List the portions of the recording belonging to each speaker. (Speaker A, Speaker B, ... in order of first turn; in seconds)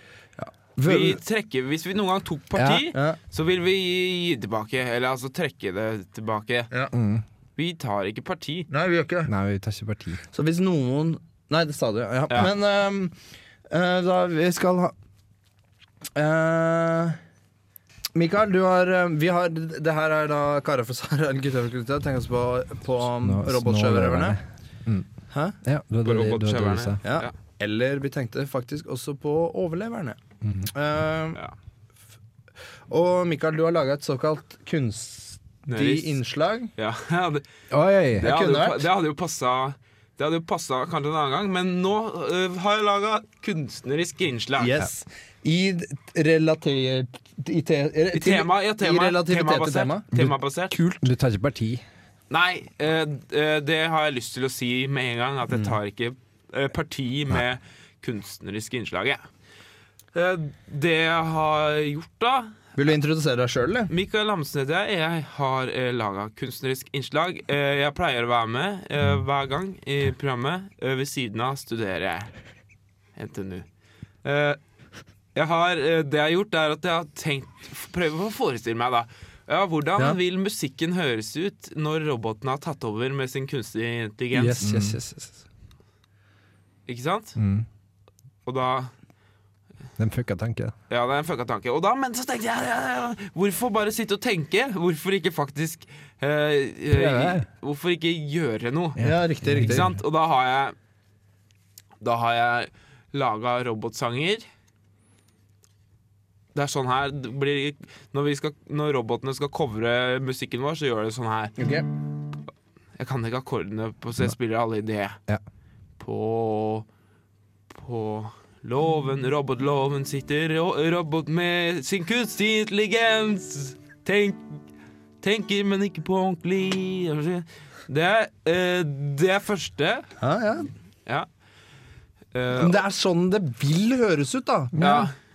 Speaker A: 0.4-1.2, 8.7-9.3, 10.3-13.2, 13.7-14.9, 16.1-17.2, 18.1-24.4, 25.3-25.6, 27.0-30.2, 30.7-31.4, 32.9-36.7, 38.2-38.9, 44.6-51.1, 62.8-63.9, 84.3-85.4, 99.0-99.9, 111.6-111.9, 130.2-130.7, 132.6-134.8
Speaker B: 0.8-6.7, 7.6-8.7, 26.0-27.3, 35.7-36.2, 36.8-37.4, 38.2-44.7, 48.1-50.8, 52.3-59.2, 60.1-62.6, 63.9-72.3, 73.2-73.7, 74.2-74.6, 75.3-84.6, 86.9-87.4, 88.5-88.9, 90.9-99.0, 99.6-100.8, 102.0-104.5, 106.5-111.6, 113.0-115.2, 116.0-116.9, 117.7-124.6, 125.2-130.1, 132.3-132.8, 134.8-135.1
Speaker C: 2.6-2.9, 6.9-7.2, 9.3-10.2, 23.2-25.1, 25.6-27.0, 30.4-30.7, 37.7-38.3, 51.0-51.9, 84.6-85.0, 87.4-87.7, 90.0-90.7, 96.9-97.5, 99.0-99.9, 134.8-135.1